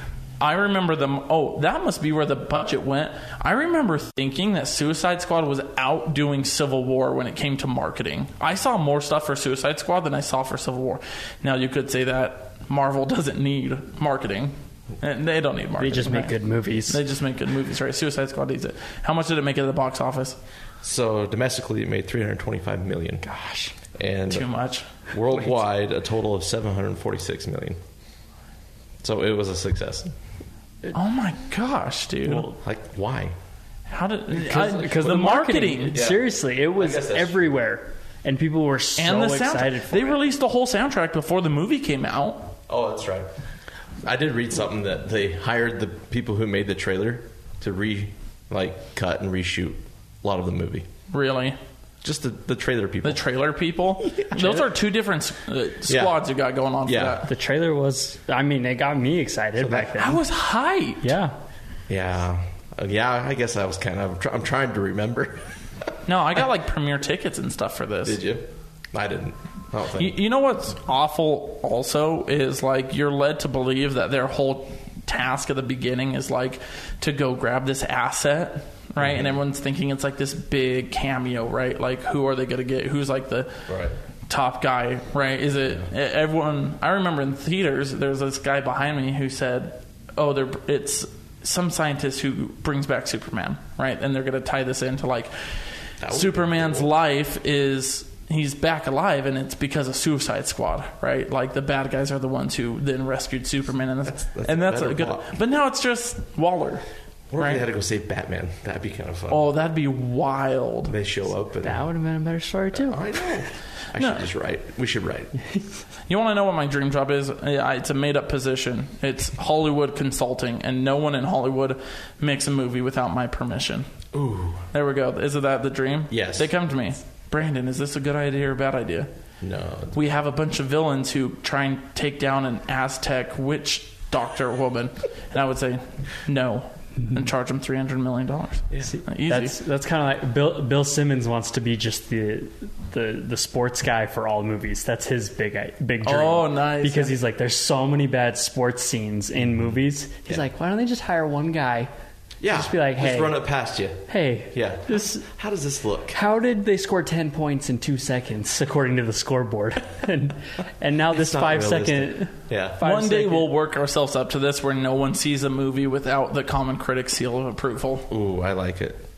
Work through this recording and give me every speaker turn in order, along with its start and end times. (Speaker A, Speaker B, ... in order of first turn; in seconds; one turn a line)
Speaker A: 0.4-20.4
Speaker B: 15.8-17.0
Speaker C: 20.8-23.3
Speaker B: 23.2-23.8
Speaker C: 23.9-24.5
Speaker A: 24.3-24.9
Speaker C: 25.1-27.8
Speaker C: 29.0-30.1
Speaker A: 30.9-32.5
Speaker B: 32.3-32.6
Speaker C: 32.6-33.4
Speaker A: 33.9-36.0
Speaker B: 34.3-40.2
Speaker C: 35.9-37.5
Speaker A: 39.0-42.5
Speaker C: 42.7-43.3
Speaker C: 44.0-50.9
Speaker A: 51.1-51.6
Speaker C: 52.0-53.2
Speaker A: 53.0-57.3
Speaker C: 54.0-54.7
Speaker C: 55.9-56.2
Speaker C: 56.9-57.2
Speaker B: 57.2-60.2
Speaker C: 59.6-60.0
Speaker A: 60.0-61.1
Speaker B: 61.0-61.4
Speaker C: 61.9-65.5
Speaker A: 66.1-68.2
Speaker C: 68.0-70.2
Speaker A: 70.0-83.6
Speaker C: 79.0-79.4
Speaker C: 83.7-84.0
Speaker A: 84.3-95.6
Speaker C: 96.0-96.9
Speaker A: 96.1-106.8
Speaker C: 104.0-105.3
Speaker C: 107.3-109.5
Speaker A: 107.4-107.6
Speaker A: 109.3-110.9
Speaker C: 110.9-111.9
Speaker B: 111.6-113.0
Speaker C: 112.7-115.3
Speaker A: 114.0-114.3
Speaker A: 116.1-124.0
Speaker C: 124.1-124.6
Speaker A: 124.7-129.1
Speaker C: 126.1-126.5
Speaker C: 129.4-130.0
Speaker A: 129.9-139.6
Speaker B: 138.8-151.9
Speaker A: 146.0-147.2
Speaker C: 152.4-156.2
Speaker B: 152.5-153.5
Speaker B: 154.1-155.3
Speaker B: 156.1-163.5
Speaker C: 161.1-162.8
Speaker A: 162.8-168.1
Speaker C: 168.1-169.1